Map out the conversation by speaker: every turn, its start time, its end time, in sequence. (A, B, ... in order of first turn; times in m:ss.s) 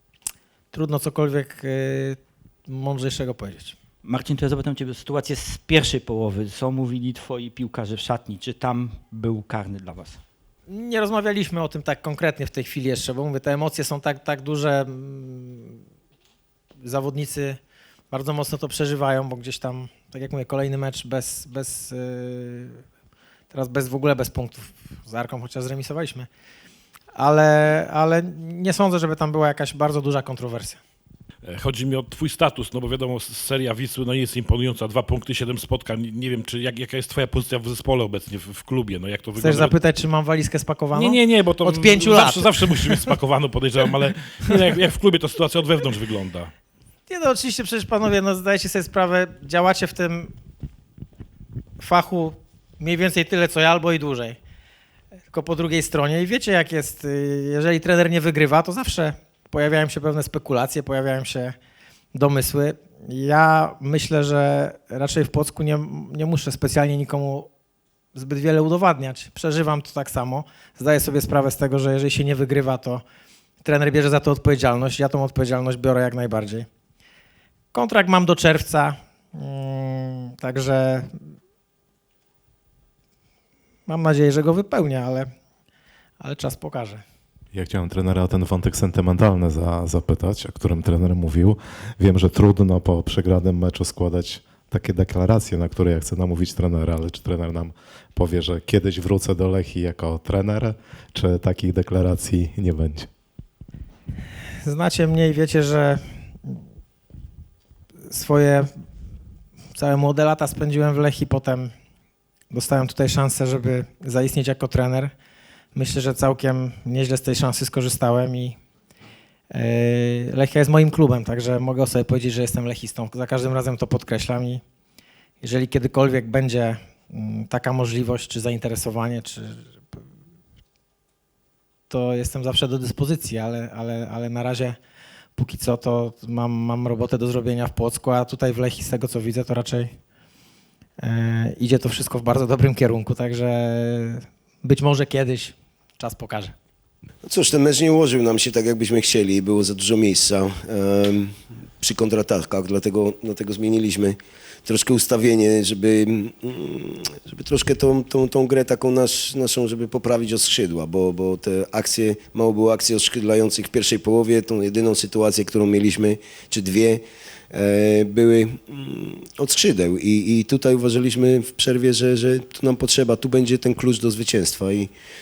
0:00.7-0:03.8 A
0:04.0-0:10.2 B
0:10.7-0:15.8 A
0:16.8-0:17.6 A
0:18.1-0:22.8 A
0:23.5-0:26.3 A
0:27.2-0:30.8 A
0:31.5-0:39.7 C
0:39.4-0:43.1 A
0:40.9-0:46.5 C
0:47.1-0:50.3 A
0:51.8-0:54.4 A
0:55.3-1:01.6 A
1:02.1-1:07.5 A
1:08.2-1:13.0 A
1:13.6-1:16.7 A
1:17.7-1:21.1 A
1:23.9-1:25.3 A
1:26.2-1:27.0 A
1:27.5-1:43.1 D
1:44.6-1:46.6 A
1:48.1-1:48.7 A
1:49.8-1:51.7 A
1:52.5-1:55.1 A
1:55.8-1:58.6 A
1:59.5-2:04.6 A
2:05.4-2:09.6 A
2:11.9-2:14.8 A
2:15.4-2:19.9 A
2:21.0-2:26.6 A
2:27.2-2:54.9 E